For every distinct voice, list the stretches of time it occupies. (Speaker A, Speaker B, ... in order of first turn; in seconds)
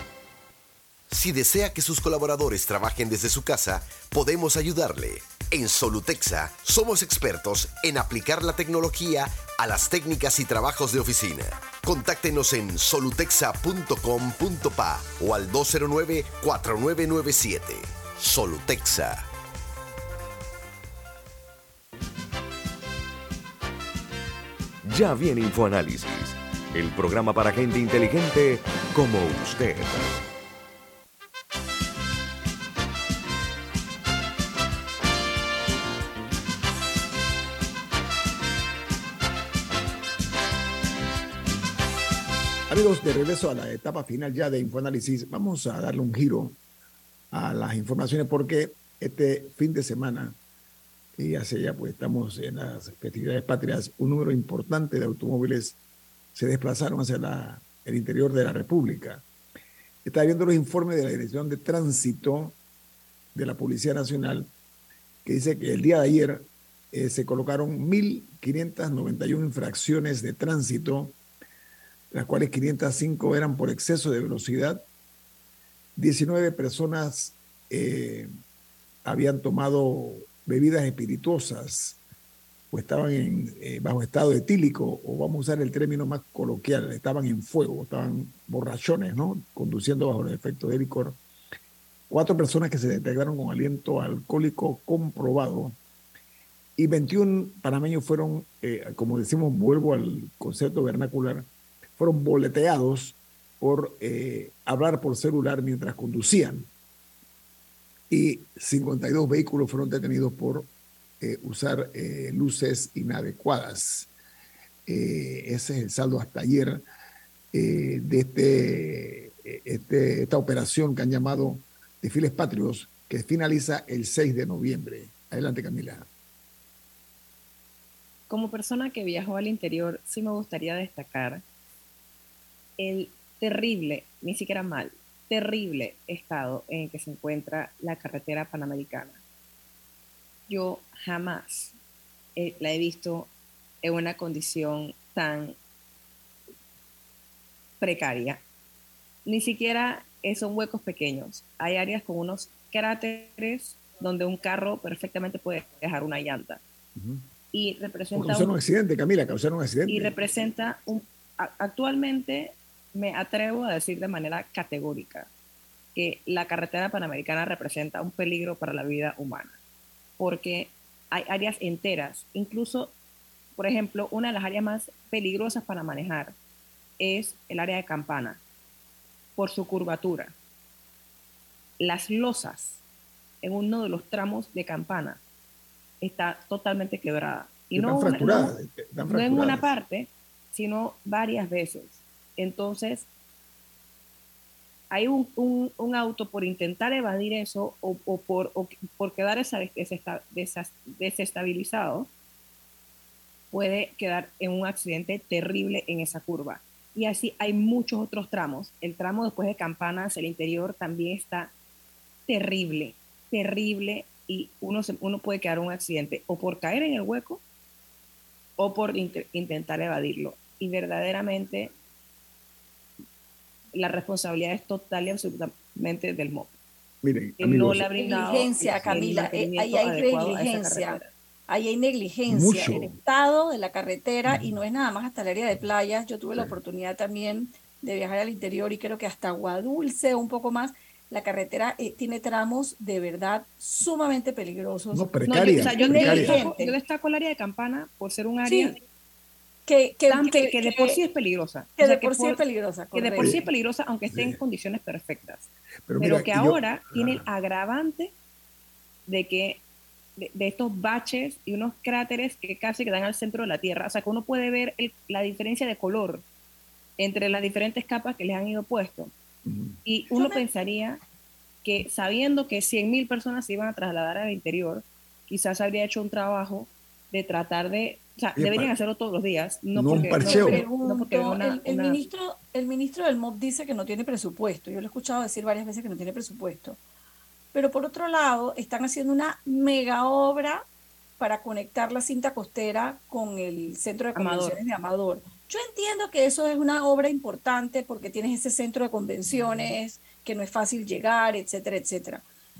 Speaker A: 1.1-19.2
Speaker B: 24.8-30.1
Speaker C: 42.7-46.6, 47.3-50.4, 51.2-55.8, 56.3-59.2, 60.0-62.6, 63.3-64.5, 65.2-71.2, 72.1-74.8, 76.0-78.3, 79.0-82.0, 82.7-91.2, 92.1-95.8, 96.8-101.5, 102.0-106.7, 108.1-110.7, 111.2-114.1, 114.8-116.8, 117.5-126.1, 156.9-157.3, 158.1-160.1, 187.7-189.7, 227.0-227.8, 232.3-232.9, 244.9-246.4, 253.2-253.4, 254.1-254.4, 255.9-257.2, 269.4-269.8, 278.4-278.7, 279.7-280.6
Speaker D: 128.3-131.4, 132.8-139.2, 140.5-141.8, 142.3-143.3, 143.8-145.6, 147.8-148.4, 149.2-156.6, 157.5-158.5, 159.9-165.3, 165.9-169.6, 170.2-172.9, 173.6-176.4, 177.0-178.4, 179.4-180.3, 181.8-182.8, 183.4-185.2, 186.0-188.5, 189.1-193.1, 194.9-202.1, 203.5-211.5, 212.3-217.4, 218.6-221.7, 223.7-226.6, 227.4-231.1, 245.3-248.8, 250.1-252.4, 252.9-258.1, 259.1-259.6, 260.2-266.2, 267.0-269.1, 269.8-271.0, 271.6-282.0, 294.1-294.6
Speaker E: 227.9-245.1, 245.6-246.7, 248.4-248.8, 249.7-251.0, 251.8-253.3, 270.1-270.4, 279.9-286.8, 287.5-290.6, 291.2-302.2